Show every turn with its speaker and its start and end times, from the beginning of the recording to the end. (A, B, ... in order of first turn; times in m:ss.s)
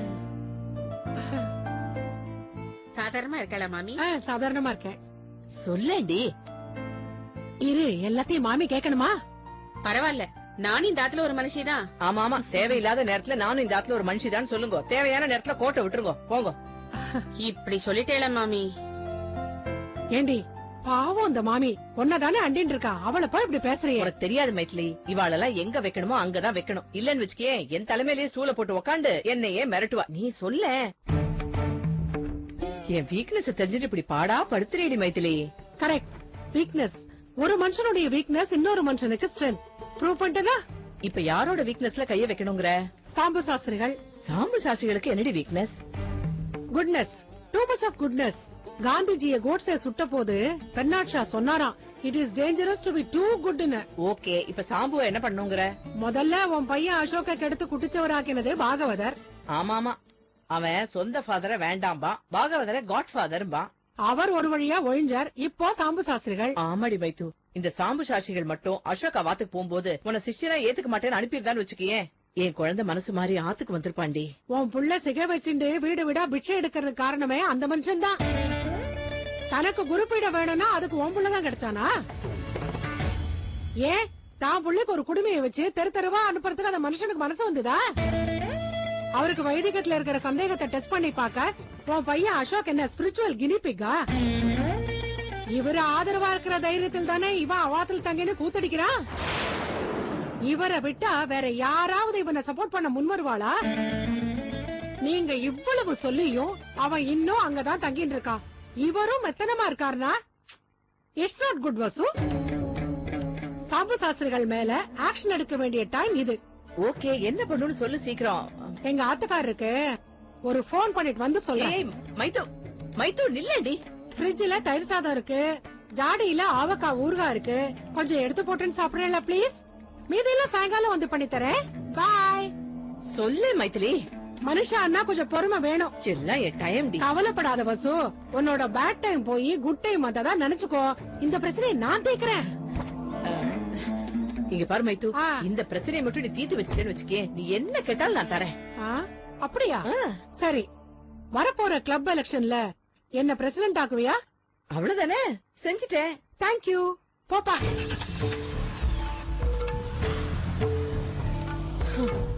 0:03.0-0:04.0 A
0:04.0-0:05.0 B
0:05.6-0:06.2 C
0:07.6-0:09.1 B
0:09.8-0:11.8 A
0:12.0-0:16.6 C
0:17.4-0:18.7 A
0:20.1-0:24.1 B
0:24.0-0:30.7 C
0:32.9-0:35.4 C
0:35.8-0:40.6 B
0:41.0-0:42.7 C
0:43.1-0:44.0 B
0:44.2-0:45.8 C
0:46.7-0:53.8 B
0:54.0-0:55.7 C
0:56.0-0:59.2 B
0:59.5-1:00.0 C
1:00.5-1:03.7 C
1:04.1-1:06.6 B
1:06.6-1:14.3 C
1:14.5-1:18.2 B
1:19.5-1:21.9 B
1:23.8-1:27.8 B
1:29.2-1:34.0 B
1:35.5-1:38.9 B
1:40.5-1:43.6 B
1:45.0-1:50.2 B
1:51.2-1:52.1 B
1:53.7-1:56.4 B
1:56.8-1:58.7 C
1:58.8-1:59.8 B
2:00.4-2:01.8 B
2:01.5-2:02.4 C
2:03.0-2:03.8 C
2:04.2-2:05.4 B
2:06.0-2:12.5 B
2:13.1-2:14.0 C
2:14.4-2:15.9 B
2:16.0-2:17.1 C
2:17.0-2:22.4 B
2:24.5-2:28.5 C
2:25.2-2:25.4 B
2:28.8-2:30.7 B
2:31.3-2:32.6 B
2:33.2-2:34.2 B
2:34.7-2:36.1 C
2:36.4-2:37.7 B